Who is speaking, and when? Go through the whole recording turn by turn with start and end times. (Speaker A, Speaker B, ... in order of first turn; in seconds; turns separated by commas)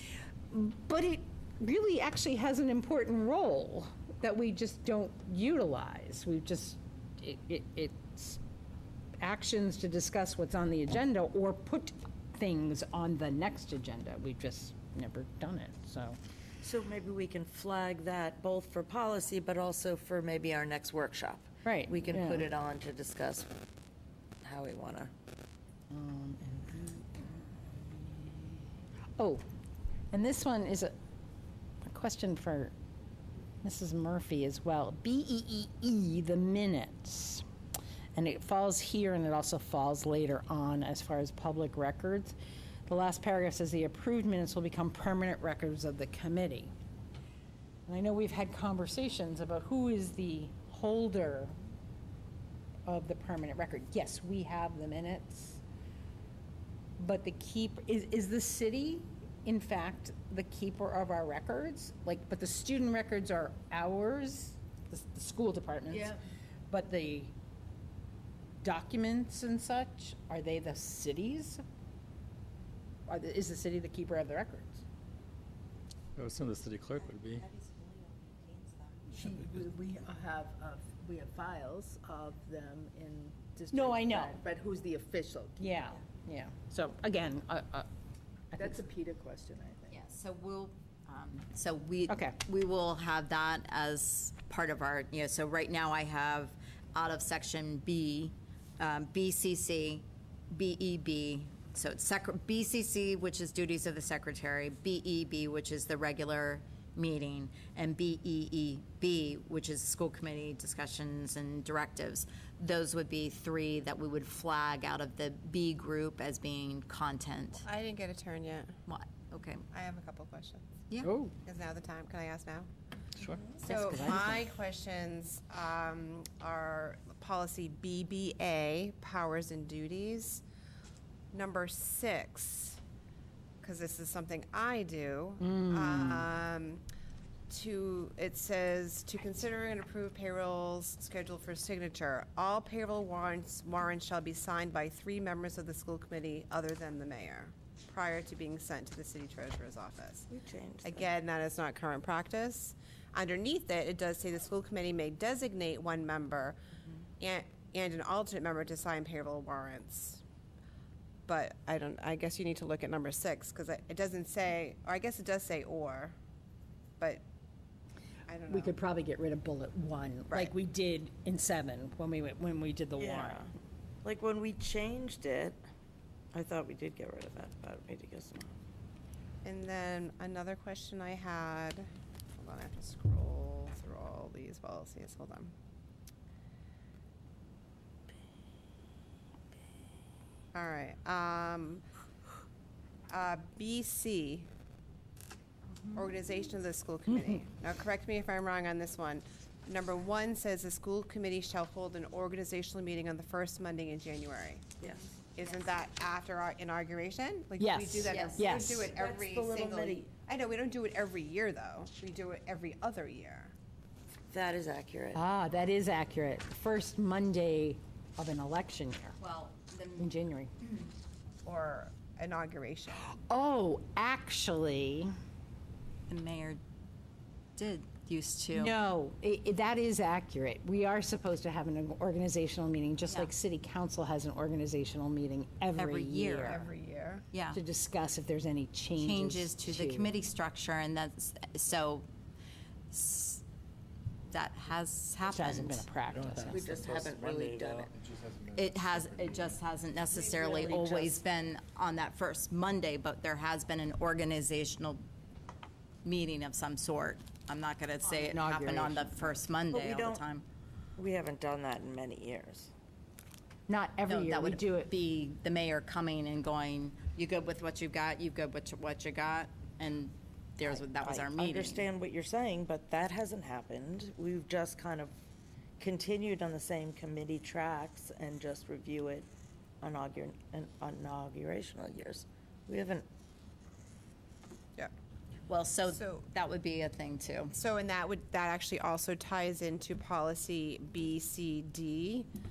Speaker A: 0.5-8.4, Speaker A: 9.2-16.2, Speaker B: 16.6-23.5, Speaker A: 21.6-22.5, Speaker B: 24.4-25.1, Speaker A: 25.9-27.3, Speaker A: 29.2-29.4, Speaker A: 30.1-30.9, Speaker A: 31.8-32.7, Speaker A: 33.6-37.4, Speaker A: 38.1-42.4, Speaker A: 42.9-46.7, Speaker A: 47.9-51.5, Speaker A: 52.9-55.6, Speaker A: 57.0-66.2, Speaker C: 65.9-66.1, Speaker A: 66.7-67.3, Speaker A: 68.6-71.6, Speaker A: 73.1-74.8, Speaker D: 76.2-77.4, Speaker C: 77.4-79.0, Speaker E: 79.1-86.0, Speaker D: 79.2-79.7, Speaker A: 83.7-84.4, Speaker A: 85.6-87.9, Speaker A: 88.5-88.8, Speaker E: 88.6-90.0, Speaker C: 89.9-117.6, Speaker A: 92.1-92.4, Speaker F: 117.6-118.7, Speaker C: 118.9-119.6, Speaker F: 119.7-120.6, Speaker A: 121.0-121.3, Speaker F: 121.4-122.7, Speaker D: 123.2-123.5, Speaker F: 123.6-130.4, Speaker A: 123.6-124.4, Speaker F: 131.3-132.8, Speaker F: 133.6-136.8, Speaker A: 135.4-136.2, Speaker F: 137.5-150.3, Speaker B: 150.3-151.1, Speaker F: 150.8-156.6, Speaker F: 157.2-160.2, Speaker F: 161.3-166.2, Speaker F: 167.0-167.2, Speaker F: 168.3-168.8, Speaker A: 168.5-173.4, Speaker B: 173.0-173.5, Speaker B: 174.0-175.6, Speaker B: 176.3-178.5, Speaker F: 179.4-185.5, Speaker F: 190.5-191.8, Speaker F: 193.1-194.5, Speaker F: 195.9-204.7, Speaker A: 197.1-197.4, Speaker F: 205.3-213.5, Speaker A: 207.6-208.9, Speaker C: 208.0-208.5, Speaker B: 208.8-210.1, Speaker B: 214.3-215.2, Speaker A: 215.1-219.2, Speaker C: 219.2-220.1, Speaker A: 220.0-220.5, Speaker F: 221.4-223.1, Speaker A: 222.9-225.1, Speaker C: 226.1-226.6, Speaker C: 227.6-228.7, Speaker A: 228.5-236.7, Speaker C: 235.8-236.6, Speaker F: 236.4-237.2, Speaker C: 237.3-237.6, Speaker A: 237.5-240.1, Speaker C: 239.0-242.1, Speaker C: 242.9-243.4, Speaker C: 244.3-245.9, Speaker A: 245.2-246.6, Speaker D: 246.1-249.6, Speaker B: 246.5-247.9, Speaker C: 248.5-255.0, Speaker B: 250.3-251.2, Speaker C: 256.0-260.4, Speaker A: 258.0-259.4, Speaker B: 259.7-260.3, Speaker B: 261.0-262.7, Speaker A: 263.7-264.9, Speaker C: 264.1-271.9, Speaker B: 270.6-275.1, Speaker B: 275.8-279.3, Speaker B: 279.8-283.1, Speaker C: 285.5-287.5, Speaker F: 285.9-286.2, Speaker F: 287.5-292.3